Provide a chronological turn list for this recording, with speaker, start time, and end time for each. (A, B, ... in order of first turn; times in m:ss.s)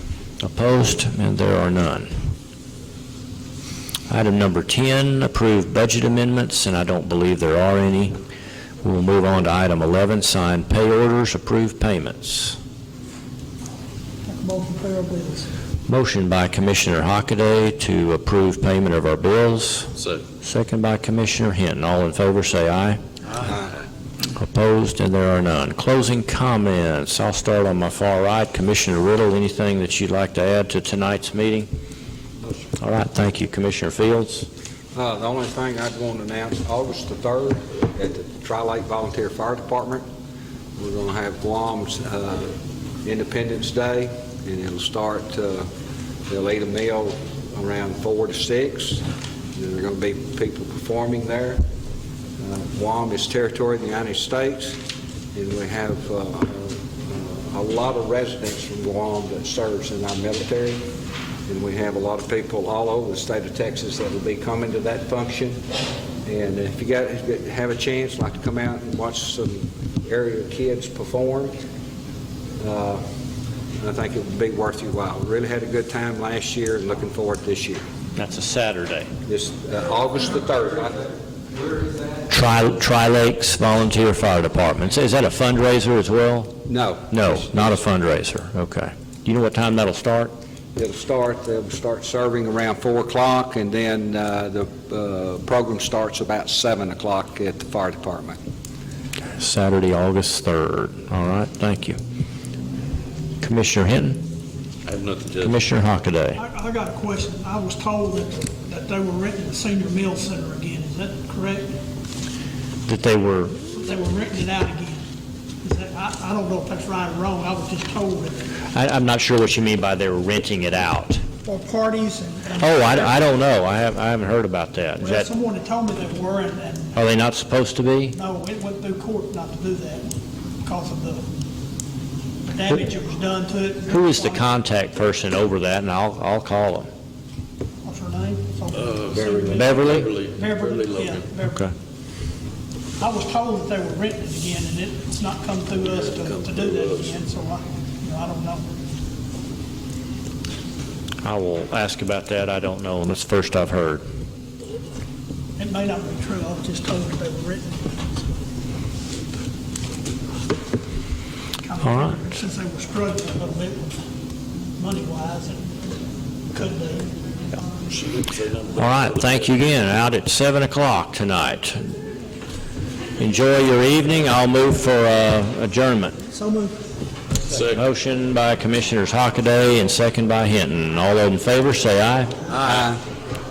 0:00.4-0:02.1 A
0:04.1-0:08.1 A
0:08.8-0:12.6 A
0:14.3-0:15.5 B
0:15.9-0:23.0 A
0:20.0-0:20.2 C
0:24.4-0:31.7 A
0:32.8-0:34.5 A
0:35.0-0:40.0 D
0:40.8-0:42.5 D
0:43.0-0:45.7 D
0:46.3-0:49.0 D
0:49.6-0:51.6 D
0:52.4-0:54.8 D
0:55.3-1:00.8 D
1:01.5-1:05.6 D
1:06.2-1:11.6 D
1:12.6-1:13.0 D
1:13.8-1:17.8 D
1:18.2-1:19.1 A
1:19.3-1:21.1 D
1:22.3-1:30.3 A
1:26.7-1:27.8 D
1:30.8-1:38.4 D
1:39.4-1:42.0 A
1:43.4-1:44.2 A
1:44.8-1:45.6 C
1:45.4-1:46.4 A
1:46.4-1:51.7 B
1:52.9-1:53.6 A
1:53.7-1:55.1 B
1:55.6-1:58.5 B
1:58.7-2:01.2 A
2:01.4-2:03.2 B
2:02.6-2:05.3 A
2:05.0-2:07.0 B
2:07.0-2:08.2 A
2:08.1-2:10.1 B
2:10.6-2:11.2 B
2:12.4-2:14.5 B
2:13.9-2:16.9 A
2:17.8-2:21.7 B
2:18.8-2:21.2 C
2:19.1-2:19.6 D
2:19.5-2:20.1 A
2:21.4-2:21.7 A
2:23.0-2:28.8 B
2:25.8-2:27.1 C
2:31.2-2:34.0 A
2:35.6-2:38.3 B
2:41.6-2:44.0 B
2:41.8-2:42.2 A
2:44.8-2:45.7 B
2:46.5-2:47.1 B
2:47.9-2:49.4 C
2:48.8-2:51.8 A
2:53.2-2:56.2 A
2:56.3-2:56.8 B
2:57.5-2:57.8 C
2:57.7-3:02.3 A
3:02.5-3:03.0 D